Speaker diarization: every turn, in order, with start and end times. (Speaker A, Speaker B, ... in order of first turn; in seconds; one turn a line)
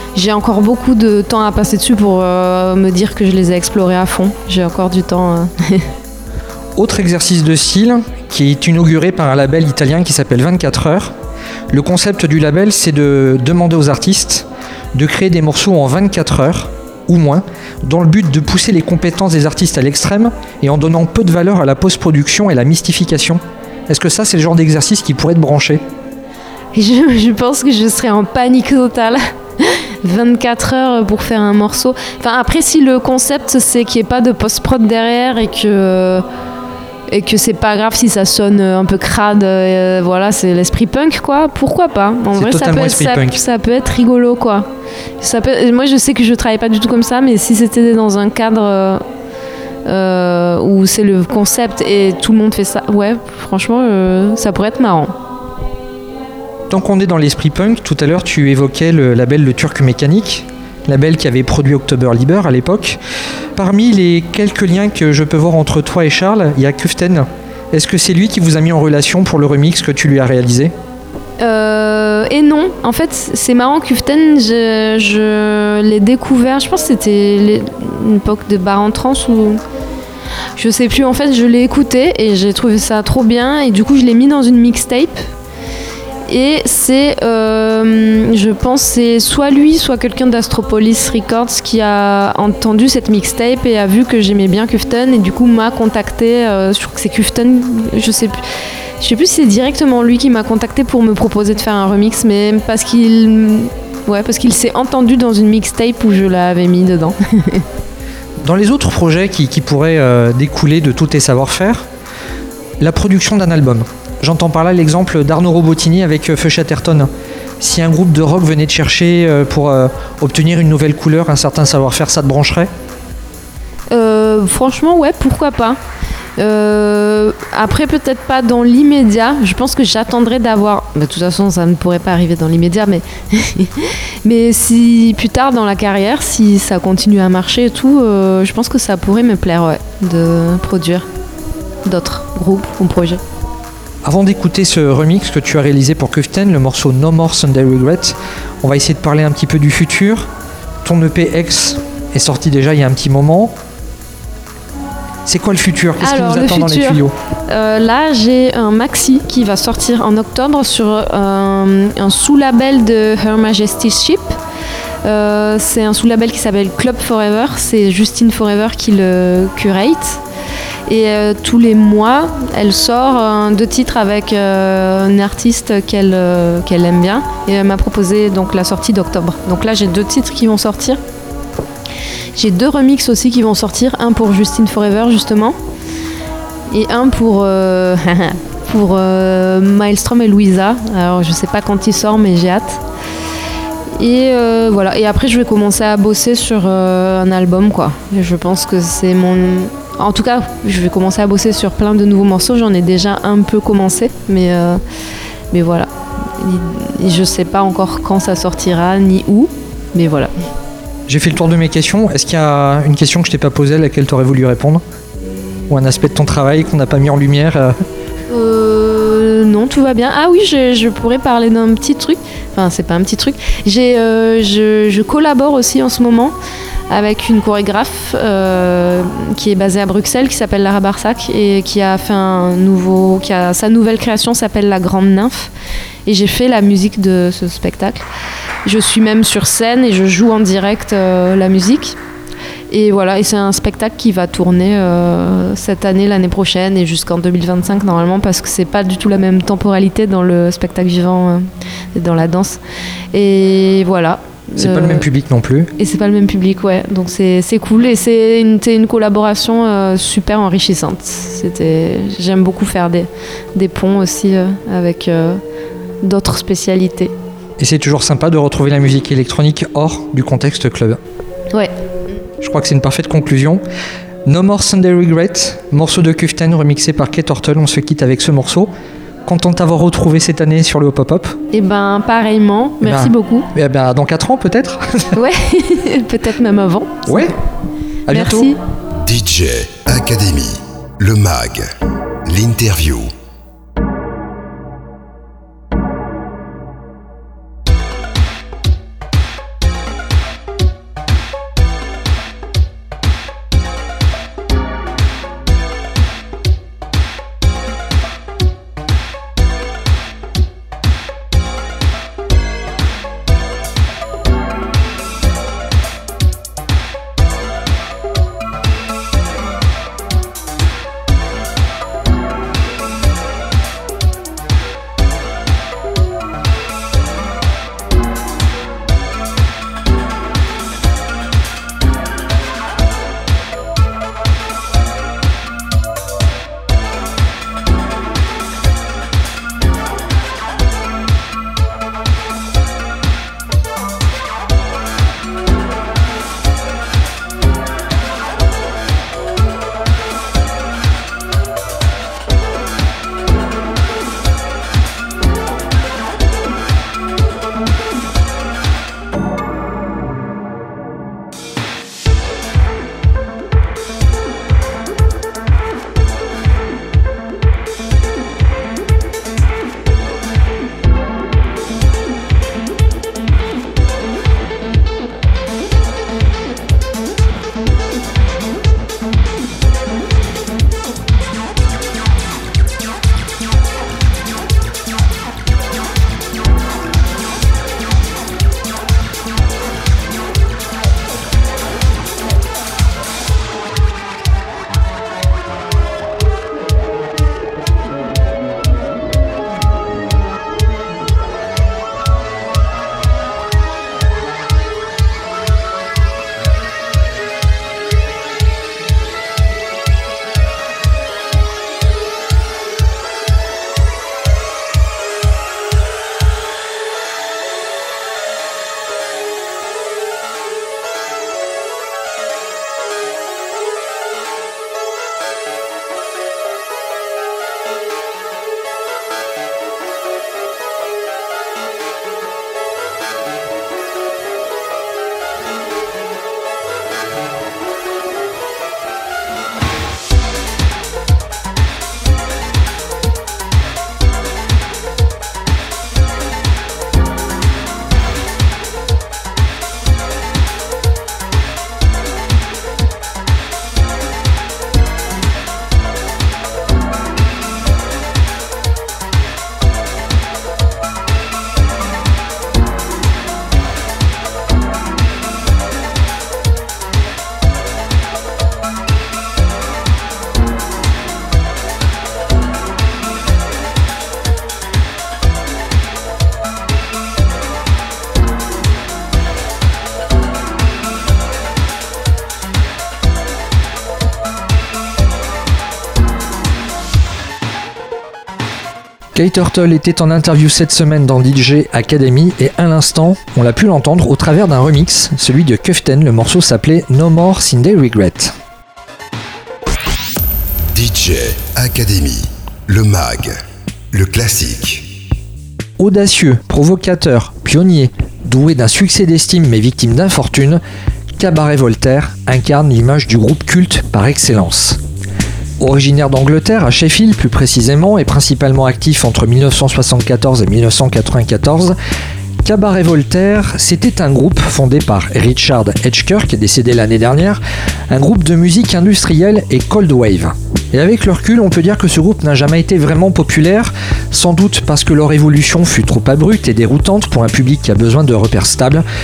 Speaker A: 0.1-5.9
Speaker B: 6.8-11.1
Speaker B: 11.7-25.8
Speaker A: 26.7-36.2
Speaker A: 37.1-44.7
Speaker B: 42.3-43.4
Speaker A: 45.2-49.0
Speaker A: 49.9-55.1
Speaker B: 56.7-63.0
Speaker B: 63.5-70.7
Speaker A: 71.4-79.6
Speaker A: 80.6-85.2
Speaker A: 86.3-98.4
Speaker A: 99.0-107.7
Speaker B: 108.4-111.8
Speaker B: 112.8-117.1
Speaker B: 117.6-122.7
Speaker A: 123.9-125.8
Speaker A: 126.4-141.1
Speaker A: 141.8-143.2
Speaker B: 144.0-150.3
Speaker B: 150.8-153.5
Speaker B: 155.2-157.1
Speaker A: 156.0-164.4
Speaker A: 165.0-170.2
Speaker A: 170.9-181.0
Speaker A: 182.3-185.5
Speaker A: 186.7-192.8
Speaker A: 194.0-204.8
Speaker A: 205.5-210.3
Speaker B: 211.1-214.8
Speaker B: 215.7-217.7
Speaker A: 218.3-226.3
Speaker A: 226.9-235.5
Speaker A: 236.1-238.0
Speaker A: 238.6-242.0
Speaker A: 242.7-252.6
Speaker A: 253.1-255.0
Speaker B: 254.6-255.7
Speaker A: 255.8-265.4
Speaker A: 266.0-267.1
Speaker B: 267.6-271.0
Speaker B: 272.4-273.6
Speaker B: 274.2-278.7
Speaker B: 279.2-281.4
Speaker A: 281.5-283.5
Speaker B: 282.8-285.1
Speaker A: 285.1-287.3
Speaker B: 287.1-287.3
Speaker B: 288.1-288.5
Speaker A: 288.1-288.6
Speaker C: 289.0-293.1
Speaker B: 489.1-498.3
Speaker C: 500.7-504.9
Speaker B: 505.8-510.6
Speaker B: 511.2-514.8
Speaker B: 515.6-521.8
Speaker B: 522.4-538.8